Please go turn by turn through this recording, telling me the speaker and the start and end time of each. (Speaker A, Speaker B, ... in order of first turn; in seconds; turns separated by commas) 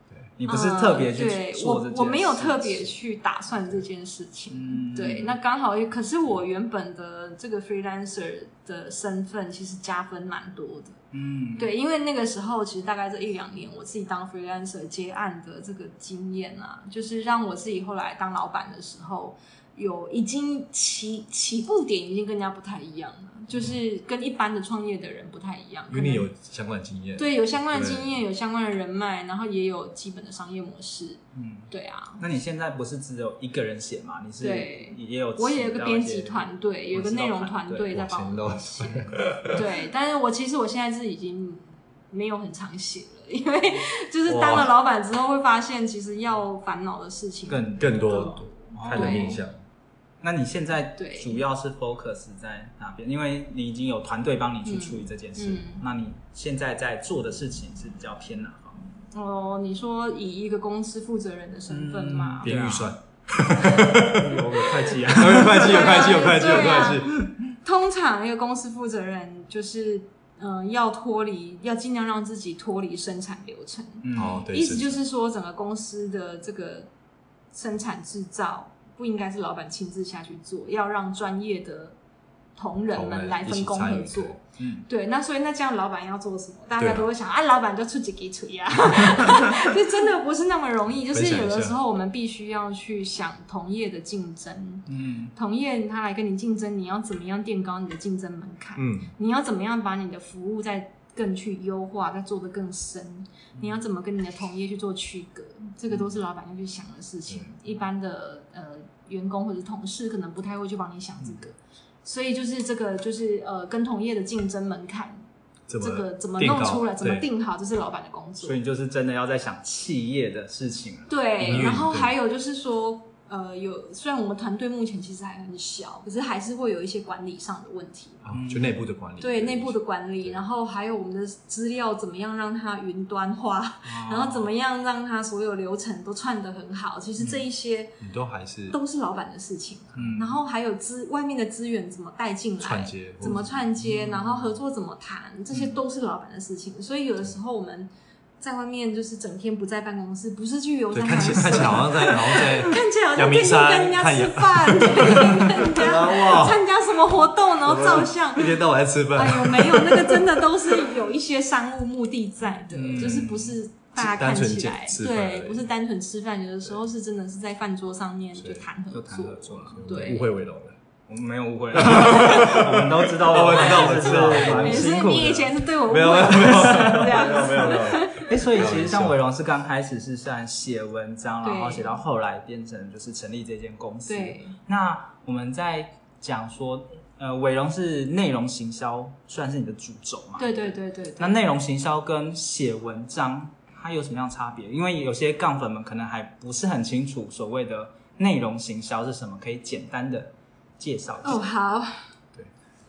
Speaker A: 0.4-3.0, Speaker B: 0.5-11.0, Speaker A: 4.5-5.4, Speaker A: 11.1-11.7, Speaker B: 11.6-26.3, Speaker C: 25.9-28.1, Speaker B: 27.2-31.2, Speaker A: 31.3-37.9, Speaker B: 31.7-32.2, Speaker B: 34.4-49.4, Speaker C: 37.9-39.6, Speaker C: 44.3-44.7, Speaker A: 47.5-49.4, Speaker C: 47.8-49.6, Speaker A: 50.2-58.8, Speaker B: 51.0-51.4, Speaker B: 54.6-55.8, Speaker B: 59.1-62.5, Speaker A: 61.7-62.9, Speaker C: 62.4-67.2, Speaker A: 63.7-66.2, Speaker B: 65.3-76.9, Speaker A: 74.0-74.4, Speaker C: 74.1-75.0, Speaker B: 77.5-82.0, Speaker B: 82.6-115.2, Speaker C: 82.9-84.4, Speaker A: 84.6-84.8, Speaker C: 86.8-87.1, Speaker C: 91.1-91.8, Speaker A: 94.9-95.3, Speaker C: 98.8-99.1, Speaker C: 115.7-117.2, Speaker B: 115.8-118.6, Speaker A: 118.4-121.7, Speaker B: 121.1-128.2, Speaker C: 121.4-122.1, Speaker C: 128.2-130.4, Speaker A: 128.3-128.8, Speaker B: 129.2-138.0, Speaker A: 133.8-134.5, Speaker C: 138.0-138.8, Speaker B: 138.7-147.9, Speaker A: 139.9-140.4, Speaker C: 142.6-143.5, Speaker A: 143.8-144.3, Speaker B: 148.4-158.6, Speaker C: 150.9-156.6, Speaker C: 157.6-160.9, Speaker B: 159.1-170.3, Speaker A: 162.7-163.6, Speaker C: 163.0-163.3, Speaker C: 163.9-165.7, Speaker C: 168.3-168.6, Speaker A: 168.9-170.2, Speaker C: 169.8-170.8, Speaker A: 171.1-175.6, Speaker C: 171.7-175.0, Speaker B: 173.7-178.4, Speaker C: 175.9-179.2, Speaker A: 176.3-201.4, Speaker B: 181.4-181.9, Speaker B: 184.1-184.6, Speaker B: 190.4-191.4, Speaker B: 201.2-202.0